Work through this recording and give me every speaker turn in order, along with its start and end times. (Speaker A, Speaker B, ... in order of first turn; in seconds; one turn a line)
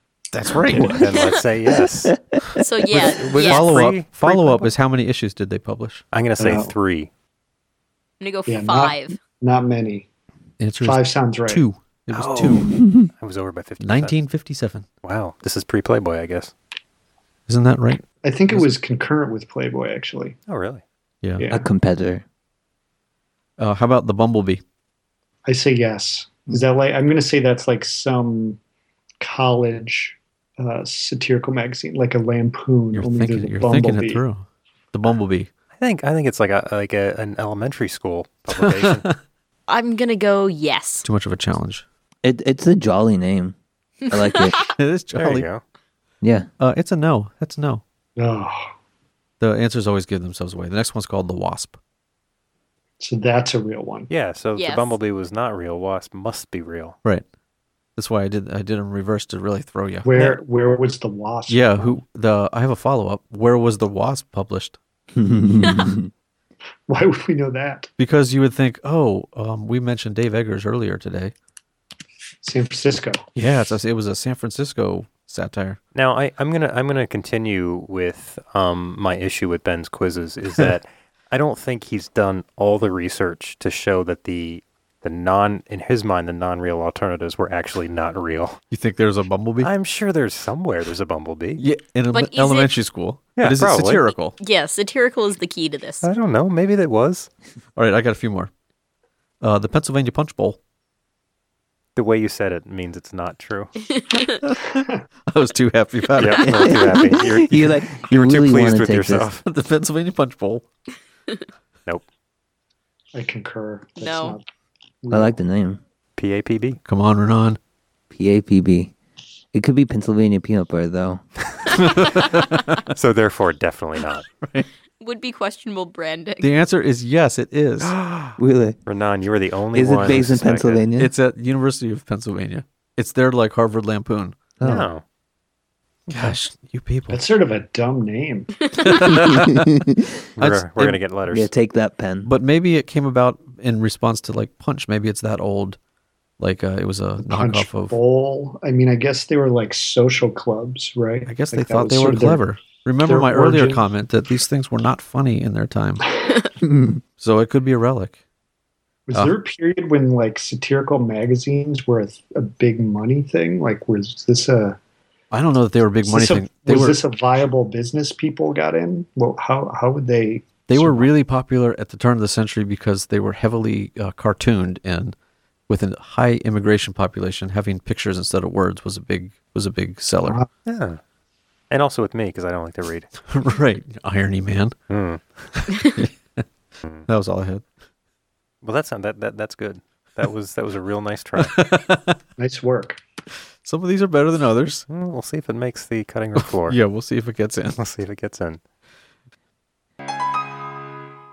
Speaker A: 0.3-1.0
Speaker B: 0.8-2.1
Speaker C: 1.8-2.6
Speaker D: 2.6-3.7
Speaker A: 2.9-6.0
Speaker B: 3.0-4.7
Speaker B: 6.1-7.1
Speaker E: 6.4-6.7
Speaker D: 8.2-9.2
Speaker E: 8.5-10.1
Speaker A: 10.6-12.7
Speaker E: 10.8-11.6
Speaker B: 12.1-14.2
Speaker C: 12.7-13.0
Speaker A: 13.8-14.9
Speaker B: 15.0-16.5
Speaker A: 17.5-18.7
Speaker E: 18.2-20.4
Speaker B: 20.5-20.8
Speaker E: 21.4-21.7
Speaker C: 21.5-22.2
Speaker A: 23.6-24.6
Speaker E: 25.5-28.6
Speaker E: 29.2-34.2
Speaker A: 32.9-35.5
Speaker B: 35.8-39.1
Speaker A: 38.5-39.1
Speaker D: 39.7-41.1
Speaker A: 41.0-41.9
Speaker C: 42.2-43.5
Speaker D: 44.1-44.7
Speaker C: 44.1-44.7
Speaker A: 44.8-45.5
Speaker B: 45.2-45.6
Speaker C: 46.2-46.5
Speaker A: 46.6-47.8
Speaker E: 48.2-48.7
Speaker A: 49.4-51.8
Speaker E: 53.0-54.1
Speaker B: 54.1-57.0
Speaker D: 54.6-55.0
Speaker A: 58.0-60.1
Speaker E: 60.0-62.0
Speaker A: 61.5-64.8
Speaker C: 65.2-66.1
Speaker E: 66.9-67.9
Speaker A: 68.0-71.3
Speaker E: 72.4-73.2
Speaker A: 73.4-75.8
Speaker B: 75.9-88.6
Speaker A: 88.7-89.7
Speaker B: 89.6-91.6
Speaker A: 91.6-94.3
Speaker D: 92.1-92.8
Speaker B: 93.4-94.1
Speaker D: 94.4-96.1
Speaker B: 96.0-97.3
Speaker A: 97.8-98.5
Speaker A: 99.4-100.6
Speaker B: 102.0-103.8
Speaker D: 103.9-104.5
Speaker A: 104.4-106.8
Speaker B: 106.2-109.4
Speaker C: 106.4-109.3
Speaker A: 109.5-110.7
Speaker E: 113.2-114.4
Speaker D: 114.0-114.4
Speaker E: 115.0-115.4
Speaker C: 115.1-115.8
Speaker B: 116.2-116.8
Speaker A: 116.8-117.6
Speaker C: 118.1-118.9
Speaker C: 119.5-121.2
Speaker A: 121.7-122.9
Speaker B: 122.9-124.3
Speaker A: 124.4-124.7
Speaker D: 125.0-126.5
Speaker A: 126.4-128.0
Speaker B: 127.8-128.4
Speaker C: 128.4-128.8
Speaker B: 128.9-130.8
Speaker C: 129.7-131.1
Speaker A: 131.0-134.5
Speaker C: 134.6-134.9
Speaker B: 134.6-135.0
Speaker B: 136.1-136.4
Speaker A: 136.1-137.2
Speaker E: 137.1-138.5
Speaker D: 138.7-139.1
Speaker A: 138.8-139.7
Speaker C: 139.1-140.1
Speaker B: 140.4-141.5
Speaker A: 140.4-141.0
Speaker C: 141.3-142.3
Speaker A: 142.2-145.8
Speaker A: 146.4-148.0
Speaker E: 147.2-152.4
Speaker A: 151.3-156.1
Speaker E: 153.0-153.8
Speaker C: 156.6-157.0
Speaker A: 157.2-158.2
Speaker E: 159.1-164.8
Speaker A: 165.3-167.0
Speaker E: 166.0-171.1
Speaker A: 170.7-175.2
Speaker A: 175.7-180.4
Speaker B: 180.7-181.0
Speaker B: 181.7-183.1
Speaker A: 183.3-184.8
Speaker B: 184.9-185.5
Speaker A: 185.6-186.4
Speaker B: 186.8-187.1
Speaker A: 187.1-187.7
Speaker B: 188.6-191.6
Speaker A: 191.4-192.2
Speaker E: 192.4-193.0
Speaker A: 193.6-194.9
Speaker B: 194.9-196.8
Speaker A: 196.4-197.8
Speaker B: 197.8-198.6